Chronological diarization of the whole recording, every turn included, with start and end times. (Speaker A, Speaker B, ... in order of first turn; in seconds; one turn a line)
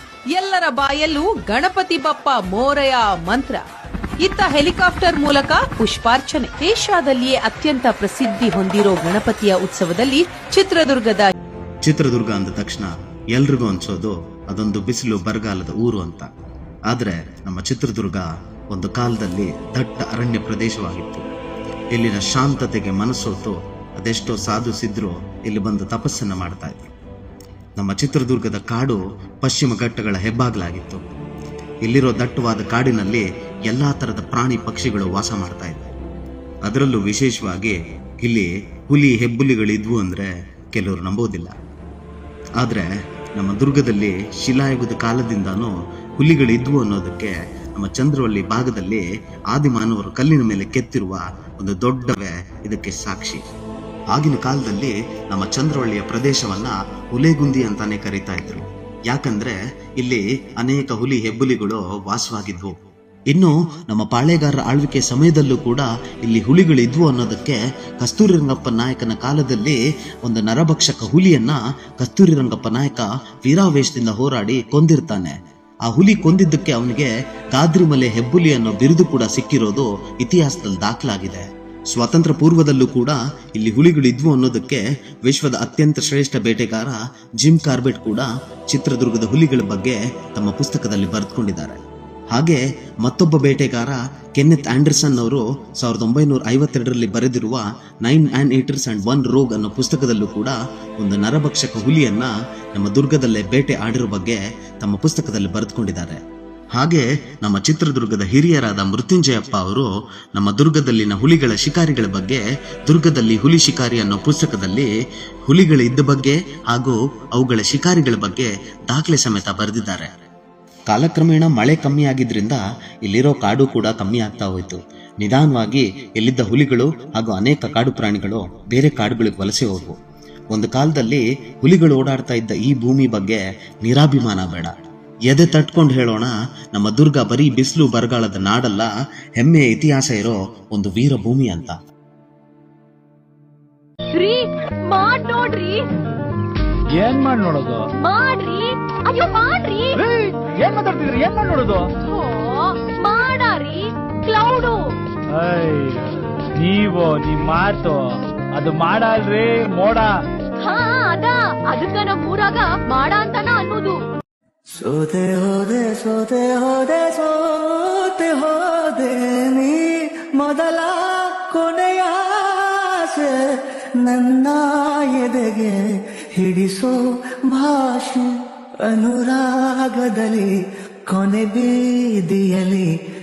Speaker A: 0.3-3.6
Speaker A: 4.2-11.3
Speaker B: 11.8-16.3
Speaker B: 16.9-21.3
Speaker B: 21.9-26.9
Speaker B: 27.8-31.0
Speaker B: 31.8-35.9
Speaker B: 36.6-41.5
Speaker B: 42.6-53.5
Speaker B: 54.1-62.7
Speaker B: 63.3-91.8
Speaker B: 92.3-106.2
Speaker B: 106.7-114.9
Speaker B: 115.5-120.1
Speaker B: 120.9-130.0
Speaker B: 130.5-134.7
Speaker B: 135.3-141.8
Speaker C: 144.1-145.8
Speaker D: 146.9-147.8
Speaker C: 148.0-150.0
Speaker D: 150.0-151.9
Speaker C: 152.0-154.9
Speaker D: 155.3-160.2
Speaker C: 160.6-164.0
Speaker E: 164.8-180.5
Speaker E: 181.1-182.9